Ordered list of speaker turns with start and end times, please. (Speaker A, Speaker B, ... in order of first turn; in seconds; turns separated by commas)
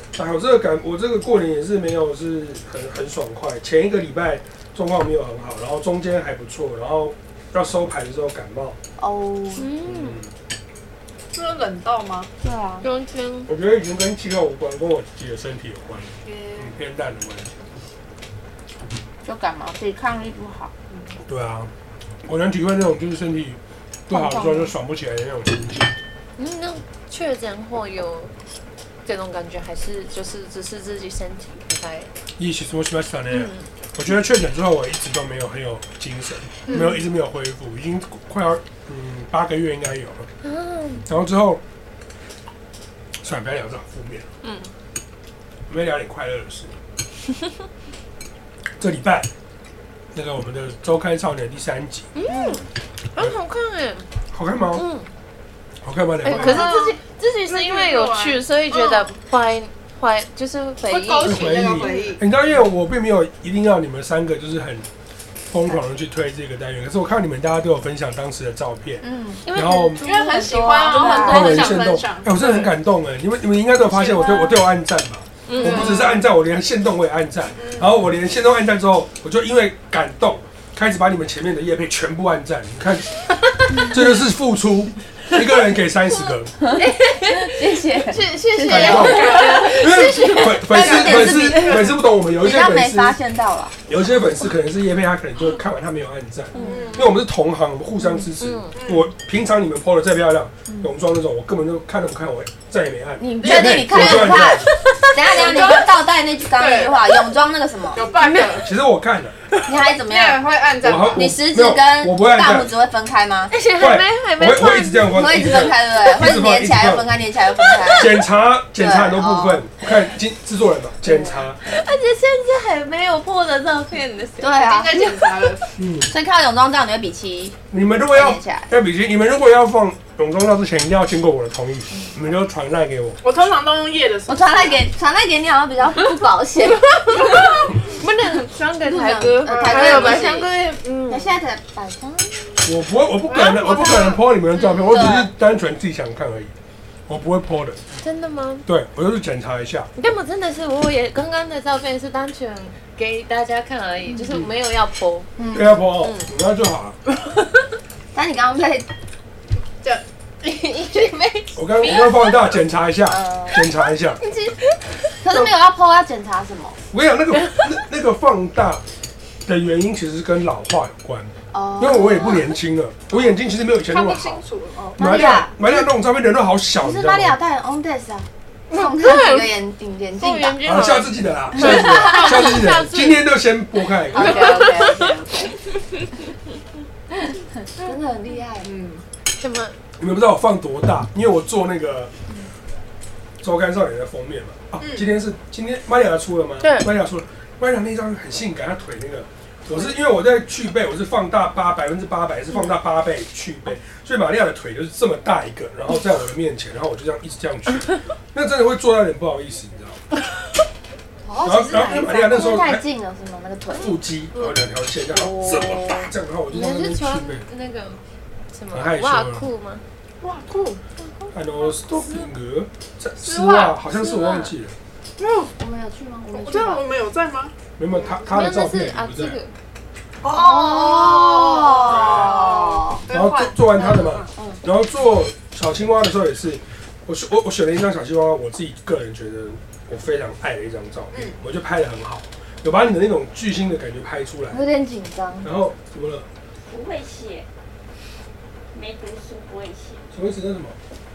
Speaker A: 0.1-8.8, Speaker B: 9.0-9.7, Speaker C: 9.6-10.2, Speaker A: 9.8-10.3, Speaker D: 11.3-12.3, Speaker B: 12.4-12.8, Speaker C: 12.8-13.5, Speaker A: 13.5-17.6, Speaker D: 16.2-16.7, Speaker B: 19.2-20.7, Speaker A: 21.3-21.7, Speaker A: 22.2-25.9, Speaker B: 24.1-24.7, Speaker C: 26.4-28.3, Speaker C: 29.1-32.1, Speaker A: 32.4-40.3, Speaker C: 33.3-33.6, Speaker D: 36.7-37.0, Speaker C: 40.4-41.0, Speaker A: 41.1-41.6, Speaker A: 43.2-44.3, Speaker C: 44.4-44.7, Speaker A: 45.7-46.8, Speaker A: 48.8-49.3, Speaker A: 50.1-52.1, Speaker C: 52.1-54.1, Speaker B: 52.3-52.6, Speaker A: 54.3-54.9, Speaker C: 54.7-55.1, Speaker A: 55.8-56.7, Speaker C: 56.2-61.9, Speaker D: 56.3-59.1, Speaker D: 60.8-62.2, Speaker A: 61.2-64.9, Speaker A: 65.5-70.0, Speaker B: 69.0-69.4, Speaker C: 69.5-71.9, Speaker D: 70.0-72.7, Speaker B: 70.3-71.5, Speaker A: 71.2-86.5, Speaker D: 73.9-74.5, Speaker C: 75.5-76.0, Speaker D: 75.6-76.2, Speaker D: 77.6-78.0, Speaker B: 86.6-93.8, Speaker C: 86.7-91.8, Speaker A: 88.6-93.2, Speaker D: 88.7-91.8, Speaker A: 93.9-104.7, Speaker B: 96.5-97.0, Speaker D: 96.6-97.2, Speaker C: 98.4-98.7, Speaker D: 98.8-99.1, Speaker B: 103.2-108.0, Speaker C: 103.8-105.8, Speaker D: 105.2-106.0, Speaker D: 106.6-107.2, Speaker D: 107.9-108.7, Speaker C: 108.1-108.7, Speaker A: 108.6-109.4, Speaker B: 109.7-110.5, Speaker D: 110.1-111.3, Speaker A: 110.8-112.7, Speaker B: 111.1-113.5, Speaker C: 113.5-115.4, Speaker A: 113.8-117.1, Speaker B: 115.1-118.1, Speaker C: 117.7-118.1, Speaker A: 117.9-121.6, Speaker B: 118.8-119.6, Speaker B: 121.1-121.4, Speaker C: 121.6-125.7, Speaker B: 124.4-125.2, Speaker D: 124.5-125.6, Speaker A: 125.8-126.1, Speaker B: 126.1-127.6, Speaker A: 127.7-133.5, Speaker B: 128.1-128.7, Speaker D: 133.2-134.8, Speaker B: 134.3-137.6, Speaker C: 137.1-141.3, Speaker D: 137.2-137.7, Speaker D: 138.8-140.5, Speaker B: 139.4-140.5, Speaker B: 141.1-142.7, Speaker A: 142.6-146.5, Speaker D: 143.3-144.2, Speaker B: 144.9-145.3, Speaker A: 147.1-147.8, Speaker C: 148.0-148.7, Speaker A: 148.7-149.9, Speaker C: 150.0-155.4, Speaker B: 155.4-155.7, Speaker A: 155.5-157.0, Speaker C: 156.0-156.3, Speaker C: 157.1-157.4, Speaker B: 158.1-158.9, Speaker A: 161.5-164.2, Speaker B: 163.1-163.7, Speaker C: 164.2-164.8, Speaker B: 165.2-166.8, Speaker A: 166.9-168.8, Speaker A: 169.4-174.4, Speaker B: 171.5-172.5, Speaker D: 173.1-175.3, Speaker A: 174.9-177.4, Speaker B: 175.0-175.9, Speaker B: 176.8-180.6, Speaker C: 178.7-179.5, Speaker C: 180.2-183.3, Speaker A: 180.6-184.7, Speaker B: 184.1-185.6, Speaker C: 184.1-185.1, Speaker B: 187.7-188.7, Speaker D: 188.6-189.1, Speaker C: 189.4-189.8, Speaker A: 190.0-192.1, Speaker A: 193.4-210.0, Speaker D: 194.8-195.1, Speaker C: 196.6-196.9, Speaker B: 211.3-214.0, Speaker A: 211.4-212.8, Speaker D: 211.4-212.3, Speaker A: 213.8-217.5, Speaker B: 215.1-216.1, Speaker C: 216.5-218.0, Speaker C: 218.5-219.8, Speaker A: 218.7-219.4, Speaker D: 220.2-220.8, Speaker A: 221.3-224.8, Speaker C: 221.6-222.3, Speaker D: 223.2-223.8, Speaker C: 223.9-224.5, Speaker D: 225.2-225.5, Speaker B: 225.5-226.9, Speaker D: 226.3-228.2, Speaker A: 227.8-229.4, Speaker C: 228.2-229.5, Speaker D: 230.2-234.3, Speaker B: 230.3-233.1, Speaker A: 231.9-232.5, Speaker A: 233.1-244.7, Speaker B: 234.2-234.6, Speaker D: 241.1-241.4, Speaker B: 244.5-245.5, Speaker A: 245.4-246.3, Speaker E: 246.7-247.5, Speaker E: 248.7-250.1, Speaker A: 250.1-250.8